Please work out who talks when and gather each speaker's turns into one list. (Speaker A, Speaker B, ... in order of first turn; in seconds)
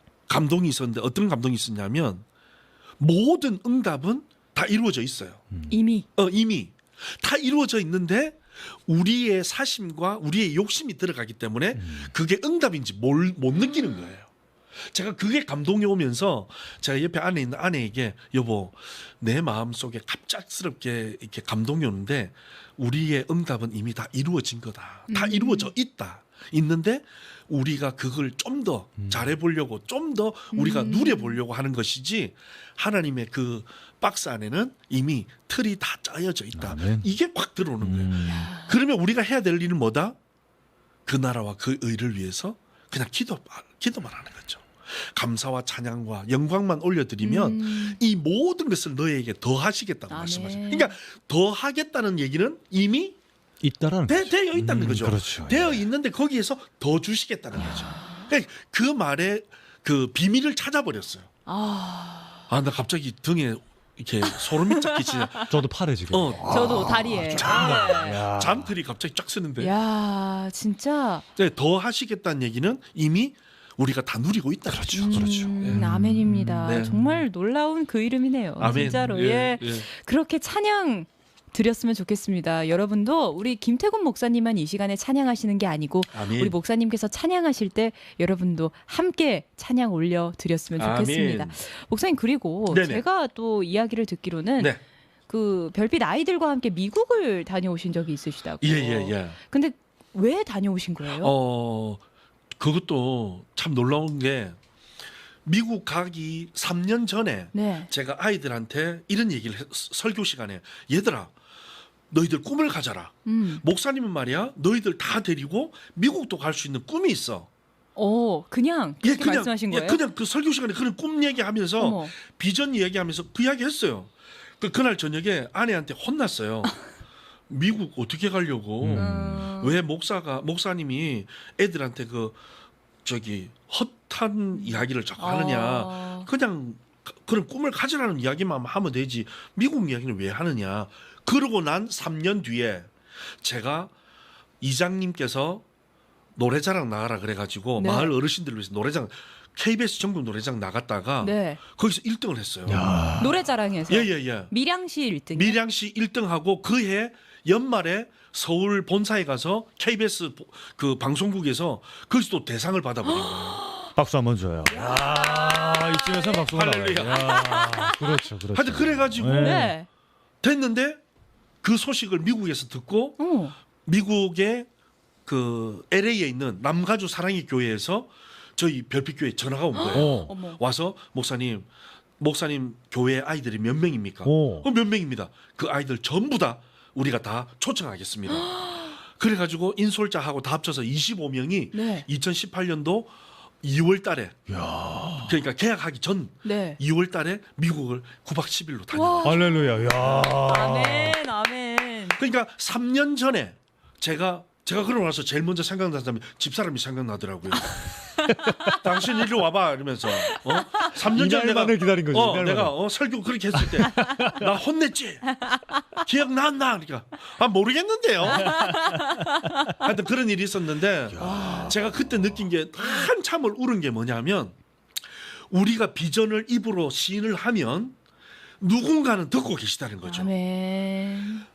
Speaker A: 0.3-2.2, 3.0-5.5, 6.1-14.3, 14.9-40.2, 41.1-53.2, 54.1-61.3, 62.5-65.5, 66.1-69.7, 71.4-75.8, 76.6-76.9, 78.6-79.9, 86.1-86.6, 90.8-91.6, 92.7-93.0, 98.6-99.4, 101.1-102.0, 102.6-104.6, 105.5-111.3, 112.1-117.5, 119.0-126.8, 127.5-132.4, 133.1-143.9, 144.6-145.7, 146.3-153.1, 153.9-154.5, 155.3-163.6, 166.5-167.6, 168.5-169.7, 170.4-171.0, 171.6-173.2, 173.8-174.7, 175.2-181.7, 182.2-194.4, 195.2-200.3, 202.2-207.8, 208.6-215.4, 216.0-218.7, 219.7-224.6, 225.5-227.9, 228.6-230.3
Speaker B: 5.5-5.8, 11.8-12.1, 36.6-37.1, 37.8-38.5, 53.6-55.9, 65.5-68.7, 74.7-77.2, 78.6-79.3, 128.8-129.5, 152.7-153.3, 164.0-169.8, 179.9-180.3, 184.2-184.7, 194.5-195.3, 199.2-201.2, 208.4-208.8, 211.1-212.8, 213.5-214.4, 221.2-221.7
Speaker C: 5.7-6.0, 25.1-25.7, 30.5-31.4, 38.3-38.8, 47.2-48.0, 50.1-50.9, 57.6-58.3, 61.5-62.5, 64.2-65.6, 66.4-68.2, 69.6-71.3, 74.9-94.8, 95.3-101.3, 107.5-107.9, 113.2-113.6, 118.0-120.0, 121.8-122.1, 128.9-129.8, 134.6-136.3, 147.8-148.1, 151.2-151.6, 153.2-155.6, 163.1-163.9, 164.7-166.5, 167.0-168.3, 169.2-169.9, 173.2-173.6, 179.8-180.6, 188.3-188.9, 191.7-192.1, 196.4-196.8, 198.9-202.2, 208.4-208.7, 210.2-210.9, 218.3-219.7, 221.2-221.7, 230.1-231.5